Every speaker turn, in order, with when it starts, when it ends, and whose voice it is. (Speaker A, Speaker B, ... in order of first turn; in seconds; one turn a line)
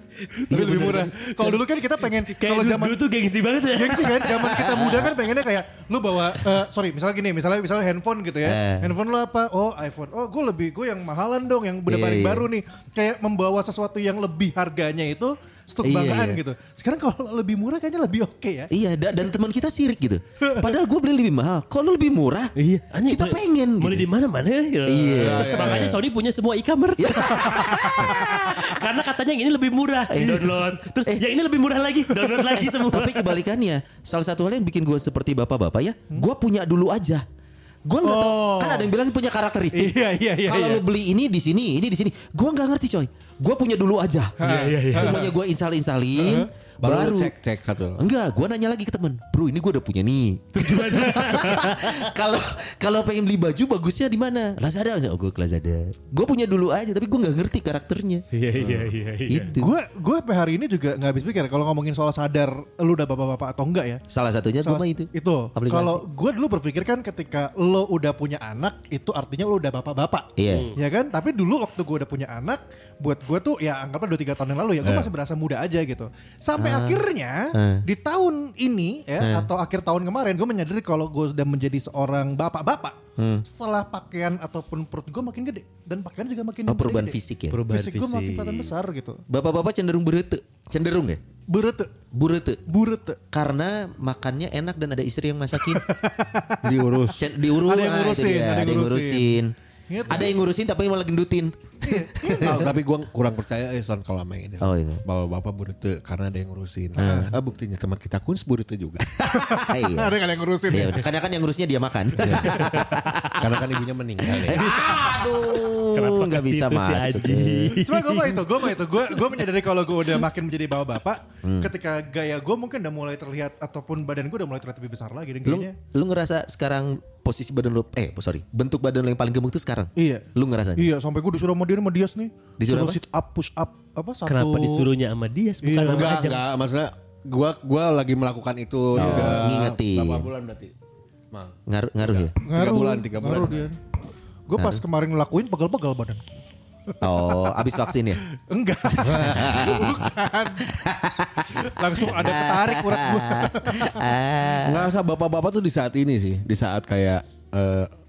Speaker A: 0.5-3.0
Speaker B: 0.5-1.6
Speaker C: 2.2-4.4
Speaker A: 3.7-18.7
Speaker B: 4.4-5.2
Speaker B: 8.4-8.9
Speaker B: 11.9-12.5
Speaker B: 15.8-16.4
Speaker B: 18.7-22.5
Speaker A: 20.4-20.7
Speaker C: 22.6-33.3
Speaker B: 23.1-24.1
Speaker B: 24.9-25.8
Speaker D: 25.2-26.0
Speaker B: 27.0-28.7
Speaker A: 27.4-28.4
Speaker B: 30.1-31.2
Speaker A: 32.2-32.5
Speaker B: 32.6-37.2
Speaker B: 37.9-44.4
Speaker A: 38.0-38.9
Speaker A: 39.7-40.8
Speaker A: 44.4-45.3
Speaker C: 44.4-45.2
Speaker B: 44.9-47.3
Speaker A: 46.2-46.5
Speaker D: 46.8-48.0
Speaker B: 48.0-58.7
Speaker C: 50.5-52.1
Speaker C: 58.3-59.6
Speaker B: 59.3-59.8
Speaker A: 59.6-64.0
Speaker B: 64.1-66.0
Speaker A: 64.6-89.2
Speaker B: 70.4-70.7
Speaker C: 70.5-70.8
Speaker D: 74.8-75.1
Speaker B: 76.6-77.0
Speaker B: 77.5-77.8
Speaker B: 79.2-79.5
Speaker B: 83.2-83.4
Speaker B: 86.7-87.6
Speaker C: 87.5-88.7
Speaker B: 89.3-91.2
Speaker A: 91.5-91.9
Speaker B: 92.1-92.6
Speaker A: 92.7-93.2
Speaker B: 93.3-95.8
Speaker A: 95.6-100.4
Speaker D: 96.6-97.2
Speaker B: 97.2-99.5
Speaker B: 100.1-102.7
Speaker A: 101.8-102.7
Speaker D: 102.4-109.1
Speaker B: 104.6-105.0
Speaker B: 107.0-107.3
Speaker A: 107.0-107.3
Speaker B: 109.2-113.6
Speaker A: 109.3-111.1
Speaker D: 112.2-112.7
Speaker A: 112.2-112.8
Speaker D: 113.3-114.7
Speaker B: 114.2-117.8
Speaker A: 114.6-115.2
Speaker C: 115.9-118.6
Speaker A: 117.8-125.8
Speaker B: 121.4-121.7
Speaker B: 125.5-130.9
Speaker A: 130.0-134.9
Speaker B: 132.6-133.0
Speaker C: 134.2-136.4
Speaker A: 135.6-136.2
Speaker D: 135.8-140.7
Speaker A: 139.0-139.4
Speaker B: 139.0-140.3
Speaker D: 141.3-143.7
Speaker B: 141.7-142.3
Speaker A: 142.4-143.8
Speaker A: 144.5-146.2
Speaker B: 144.6-144.8
Speaker A: 146.9-147.6
Speaker B: 147.0-148.2
Speaker A: 148.3-150.8
Speaker B: 149.0-150.1
Speaker B: 150.7-154.9
Speaker A: 151.5-154.2
Speaker D: 154.6-157.9